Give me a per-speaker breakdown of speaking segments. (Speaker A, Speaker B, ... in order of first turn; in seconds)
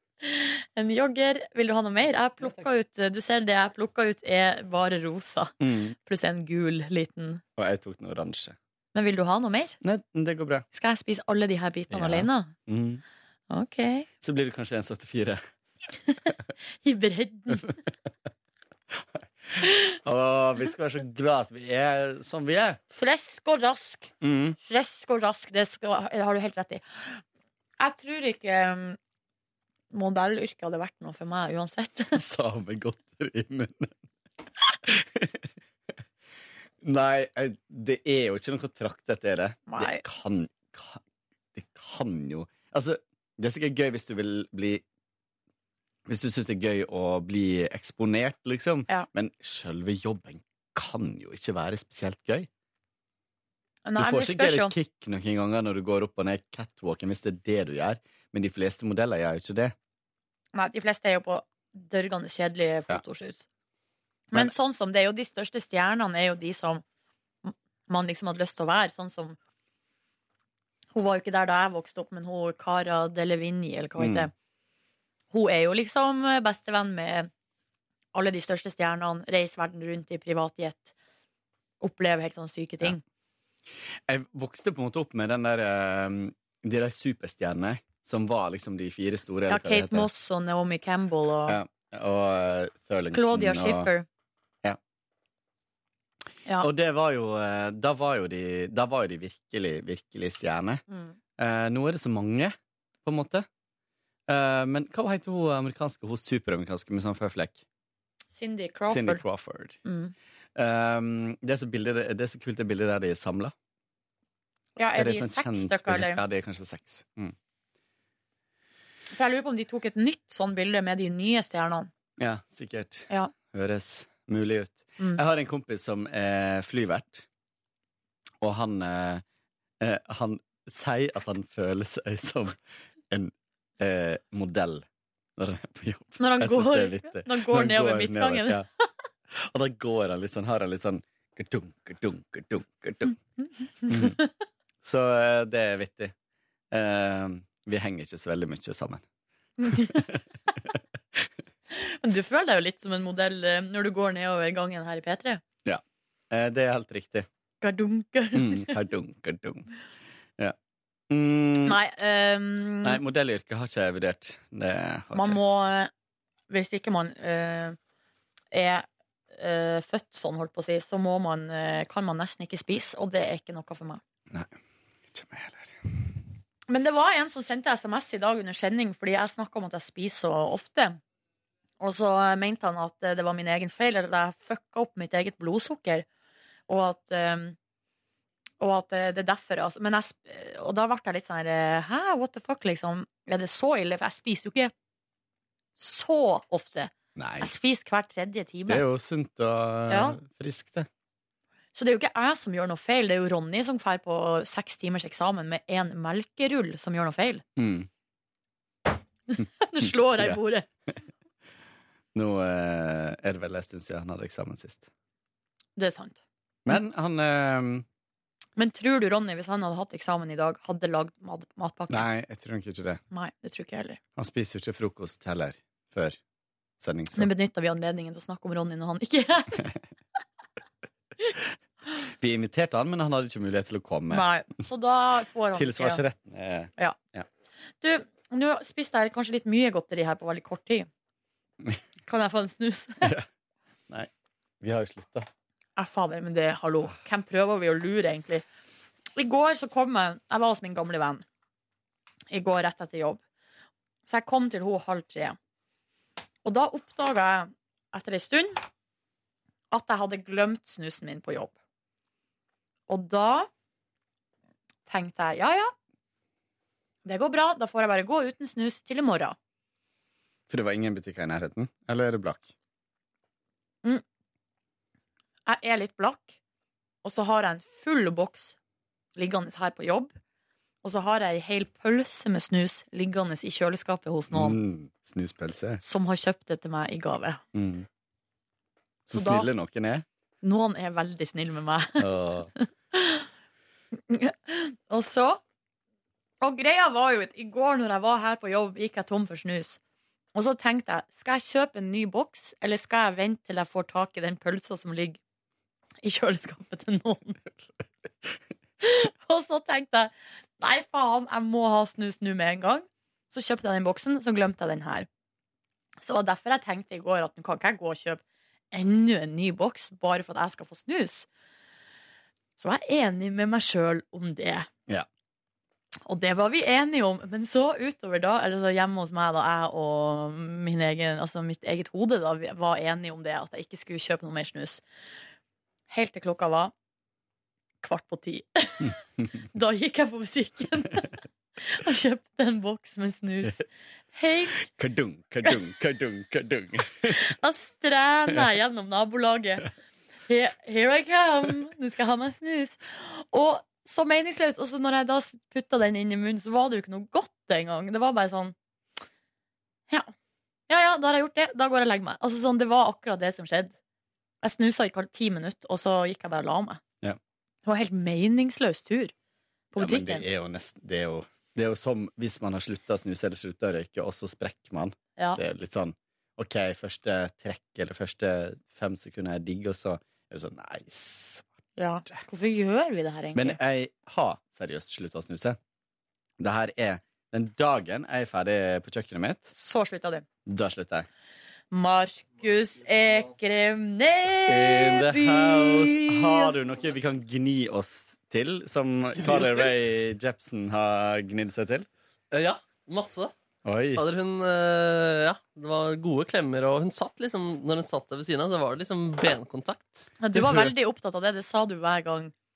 Speaker A: 0.2-7.4, 8.9-9.8, 10.7-12.5, 13.5-14.1, 16.8-17.7, 22.9-27.2, 27.8-29.0, 29.9-32.2, 39.7-40.0, 53.9-54.7, 60.5-63.4, 64.3-66.8, 67.4-69.4, 70.9-74.3, 75.3-77.3, 78.1-80.9, 81.8-83.0, 89.5-91.6, 93.1-94.1, 100.9-101.2, 108.3-109.2, 109.8-110.1, 114.8-116.2, 119.1-121.9, 136.2-138.6, 144.0-144.2, 149.6-150.0, 151.7-155.4, 157.6-158.8, 161.7-163.0, 165.1-165.9, 166.5-167.8, 168.5-174.0, 176.7-181.0, 181.8-186.1, 186.7-187.6, 188.6-194.7, 195.8-198.8, 199.9-200.2, 201.8-207.4, 209.3-210.7, 215.8-216.2, 218.6-222.1, 223.1-224.0, 227.1-229.6, 234.1-236.0, 237.8-240.9, 242.1-243.1, 245.8-248.4, 249.2-251.2, 252.3-253.2, 254.1-255.4, 256.4-258.6, 259.7-261.5, 262.9-263.5, 264.9-265.7, 267.1-269.4, 275.5-276.4, 277.0-278.6, 279.2-280.1, 280.8-284.6, 285.8-287.4, 289.1-289.5, 290.4-292.1, 292.9-293.3, 294.1-295.4, 296.4-299.8, 300.4-305.2, 306.0-307.4, 308.8-315.1, 316.0-321.3, 322.6-324.7, 326.1-334.8, 335.9-336.7, 337.8-339.0, 339.5-344.7, 347.1-349.7, 350.3-358.6, 360.7-363.7, 364.4-366.8, 367.7-369.1, 369.7-370.3, 381.8-383.6, 389.6-390.2, 391.7-396.5, 410.2-412.3
Speaker B: 5.6-6.0, 7.6-8.6, 9.8-10.7, 11.9-13.0, 14.2-15.4, 19.6-22.8, 24.2-24.6, 32.1-33.9, 34.9-35.4, 36.8-41.0, 41.5-44.8, 46.1-52.5, 54.0-59.7, 74.0-74.3, 84.1-90.1, 91.5-93.9, 96.6-100.8, 101.4-103.5, 104.3-107.6, 108.9-109.8, 110.6-113.5, 114.9-117.3, 122.2-127.2, 128.4-129.2, 129.8-132.6, 133.1-134.8, 135.4-138.7, 139.4-143.2, 143.9-144.2, 144.8-146.1, 146.7-149.0, 155.7-157.3, 158.3-159.7, 161.1-161.8, 162.8-165.4, 175.1-175.8, 197.2-197.5, 198.7-200.9, 207.6-207.9, 212.1-214.9, 216.7-217.8, 221.9-223.0, 224.2-226.2, 226.8-227.3, 232.2-234.4, 235.5-237.3, 244.6-245.3, 270.5-272.5, 284.3-285.8, 287.5-287.9, 289.1-290.1, 292.0-292.5, 344.6-347.2, 369.8-381.5, 383.4-385.6, 386.4-389.5, 390.5-391.1, 394.5-401.9, 403.6-404.1
Speaker C: 399.2-399.7, 402.3-403.3, 404.0-410.4